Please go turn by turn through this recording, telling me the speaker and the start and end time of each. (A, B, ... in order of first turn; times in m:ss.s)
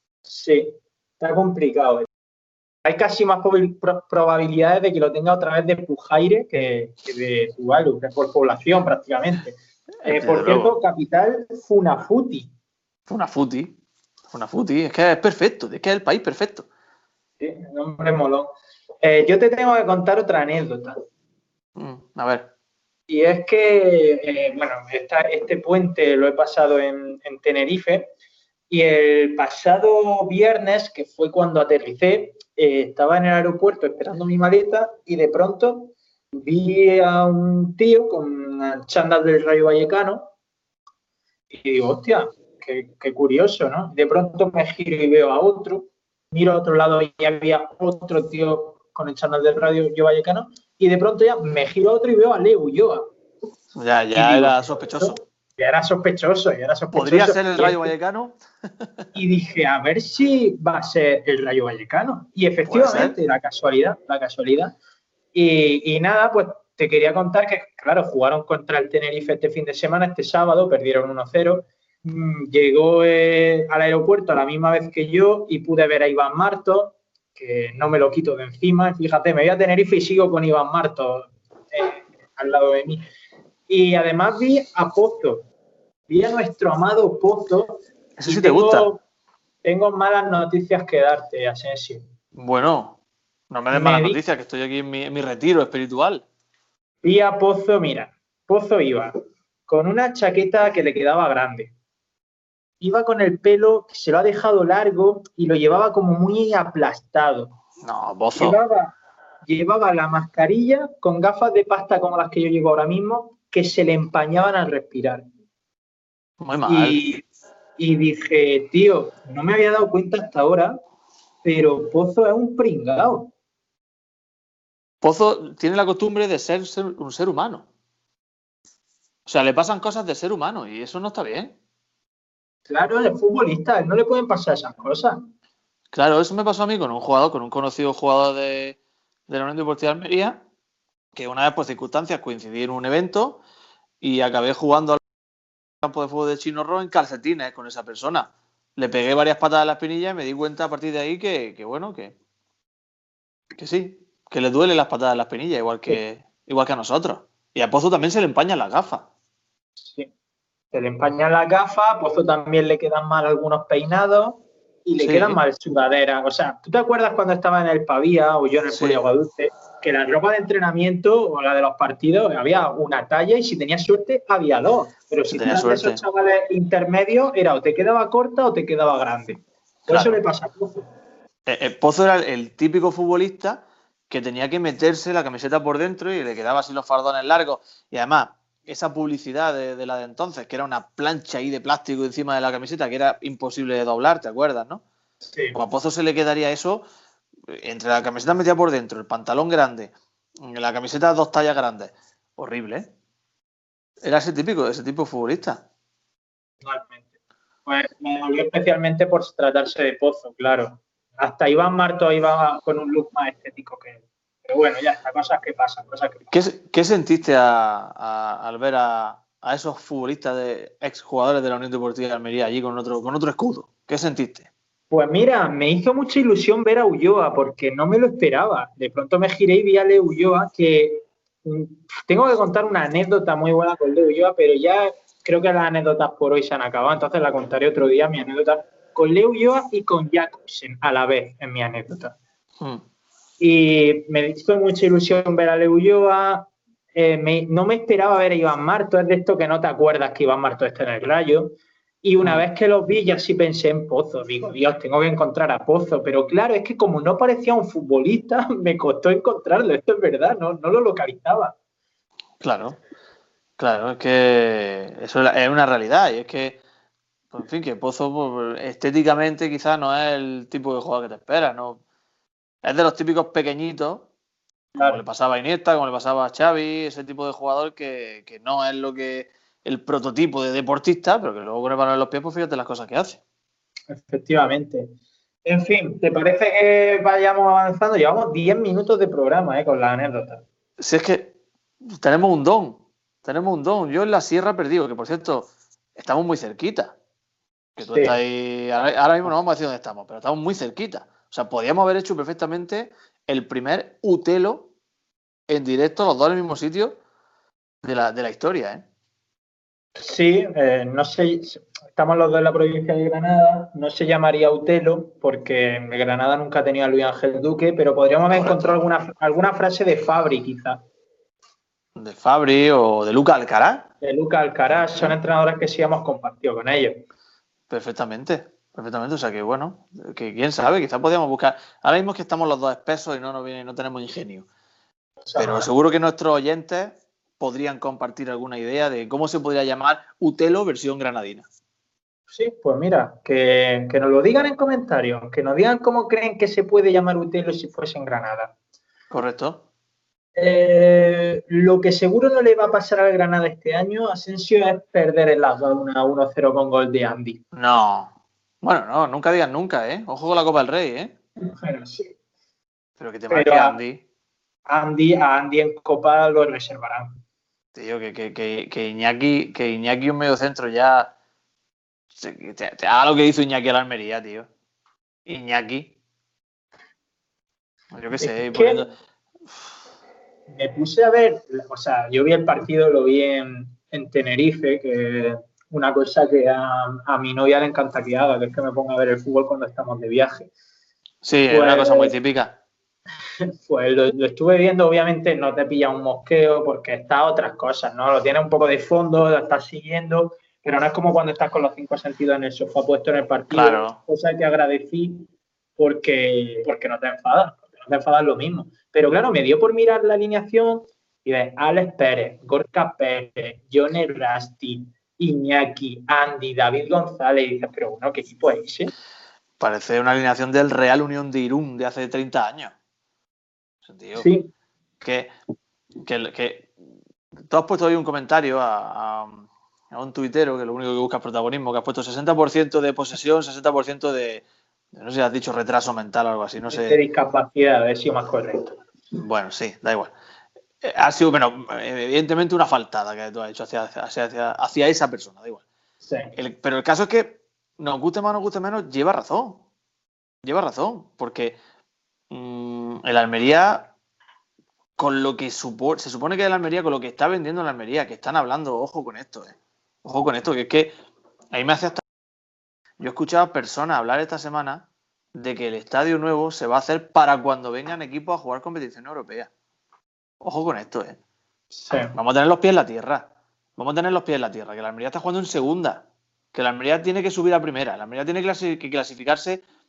0:00.2-0:02.1 A
0:02.8-0:12.5 A
0:10.0-0:10.8 B
0:13.1-0:13.8 B
0:14.3-0:16.7 B
0:17.4-0:18.5 A
0:19.0-0:21.0 A
0:21.8-0:22.5 B
0:23.1-0:28.1 A
0:28.7-0:40.3 A
0:41.5-0:53.1 A
0:53.7-0:55.2 B
0:54.1-0:57.9 A
0:56.9-0:58.9 B
0:59.2-1:04.8 A
1:02.7-1:03.2 B
1:05.3-1:23.0 A
1:23.7-1:25.5 A
1:26.1-1:29.0 A
1:28.2-1:28.9 B
1:29.6-1:32.0 A
1:32.4-1:33.0 B
1:33.5-1:36.2 B
1:33.7-1:34.2 A
1:37.0-1:39.2 A
1:39.7-1:41.7 A
1:42.8-1:47.6 A
1:47.8-1:48.6 B
1:48.4-1:48.9 A
1:49.4-1:55.2 A
1:56.4-1:57.0 B
1:56.7-1:57.2 A
1:57.8-2:00.8 A
2:01.4-2:03.3 A
2:05.0-2:07.7 B
2:09.2-2:11.5 B
2:12.7-2:15.3 A
2:15.9-2:20.4 B
2:21.2-2:23.4 B
2:24.0-2:25.0 B
2:25.8-2:32.1 B
2:33.6-2:39.1 B
2:39.8-2:40.1 A
2:40.7-3:00.9 A
2:45.0-2:45.4 B
2:48.7-2:49.0 B
2:55.3-2:56.0 B
2:59.9-3:00.2 B
3:01.5-3:14.8 B
3:15.3-3:15.6 A
3:15.5-3:16.9 B
3:17.5-3:22.9 B
3:24.0-3:25.6 B
3:26.6-3:27.0 A
3:27.7-3:36.3 A
3:36.3-3:44.5 B
3:44.9-4:02.2 A
4:03.4-4:21.5 A
4:22.4-4:22.8 B
4:23.6-4:26.6 B
4:27.3-4:31.8 B
4:32.6-4:34.1 B
4:34.8-4:35.0 A
4:34.8-4:43.2 B
4:43.9-4:44.9 A
4:45.4-4:50.4 A
4:50.8-4:51.3 B
4:51.9-4:56.9 B
4:57.8-5:04.7 B
4:57.8-4:58.2 A
5:05.5-5:07.0 B
5:07.8-5:08.8 B
5:10.0-5:20.8 A
5:18.3-5:18.7 B
5:22.0-5:23.9 B
5:24.0-5:27.0 A
5:24.7-5:25.2 B
5:27.7-5:34.4 B
5:35.2-5:35.7 A
5:35.4-5:41.4 B
5:42.3-5:48.5 A
5:49.1-5:49.6 B
5:50.4-5:57.4 A
5:57.5-6:01.1 B
6:01.4-6:02.1 A
6:03.0-6:04.0 B
6:03.3-6:03.8 A
6:04.7-6:07.2 A
6:07.8-6:11.1 B
6:12.2-6:14.5 B
6:15.3-6:15.9 B
6:17.9-6:18.9 B
6:18.2-6:18.9 A
6:20.5-6:30.5 A
6:31.2-6:32.6 B
6:31.5-6:32.1 A
6:33.6-6:58.9 A
6:43.5-6:44.0 B
6:59.6-7:02.7 B
7:03.8-7:04.3 B
7:04.2-7:04.5 A
7:05.0-7:05.3 B
7:06.0-7:06.7 B
7:07.4-7:17.0 B
7:16.6-7:18.8 A
7:19.1-7:20.1 B
7:20.8-7:25.6 B
7:26.0-7:26.3 A
7:26.4-7:29.6 B
7:30.4-7:31.6 B
7:32.3-7:33.9 B
7:35.0-7:40.9 B
7:41.5-7:42.0 B
7:43.0-7:49.5 B
7:50.4-7:51.2 B
7:51.7-7:52.1 A
7:52.1-7:56.0 B
7:56.5-7:59.6 B